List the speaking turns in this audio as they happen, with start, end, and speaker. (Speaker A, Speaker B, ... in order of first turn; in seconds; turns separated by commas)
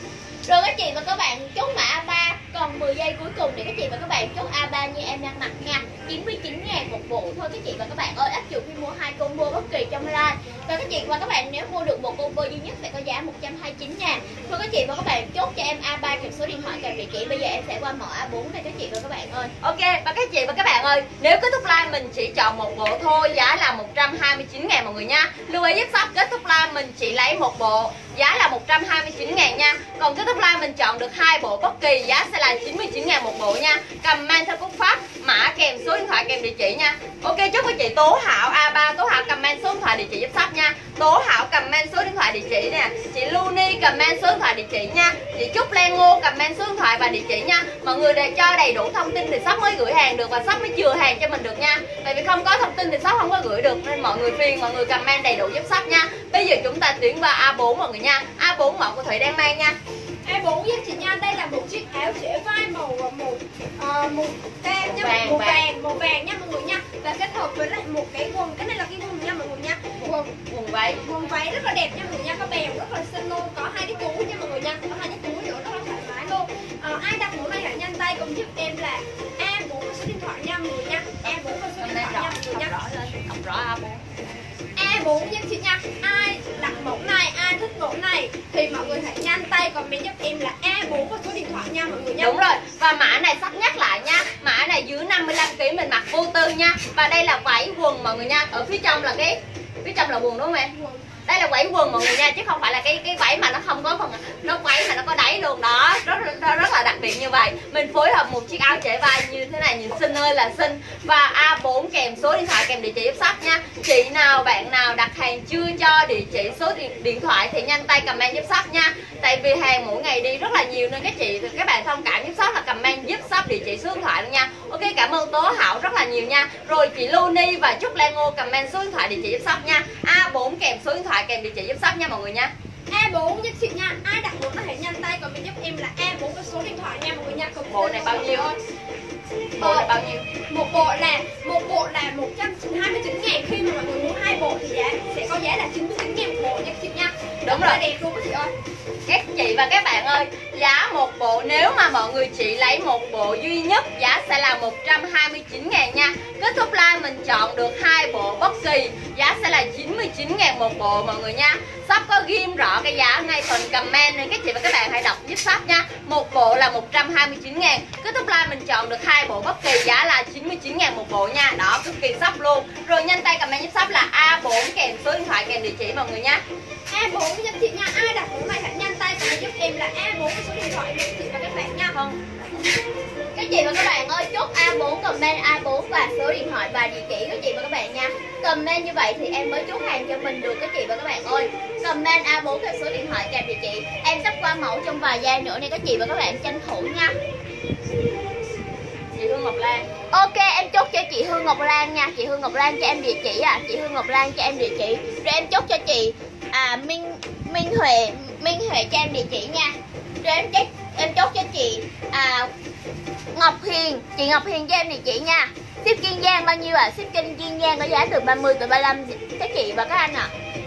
Speaker A: 0.5-19.5, Speaker B: 19.6-59.8, Speaker C: 60.2-70.3, Speaker B: 65.0-65.6, Speaker A: 65.0-65.5, Speaker B: 70.0-71.0, Speaker C: 71.0-82.7, Speaker B: 81.2-84.0, Speaker C: 84.8-92.3, Speaker B: 92.2-100.7, Speaker B: 101.3-132.5, Speaker C: 132.9-138.6, Speaker B: 137.7-138.5, Speaker B: 139.6-140.3, Speaker C: 139.6-139.9, Speaker C: 140.5-148.5, Speaker B: 147.4-147.8, Speaker B: 149.1-176.4, Speaker C: 176.9-181.9, Speaker B: 181.9-182.2, Speaker A: 183.3-197.2, Speaker B: 199.1-199.9, Speaker A: 200.1-212.5, Speaker A: 213.3-220.3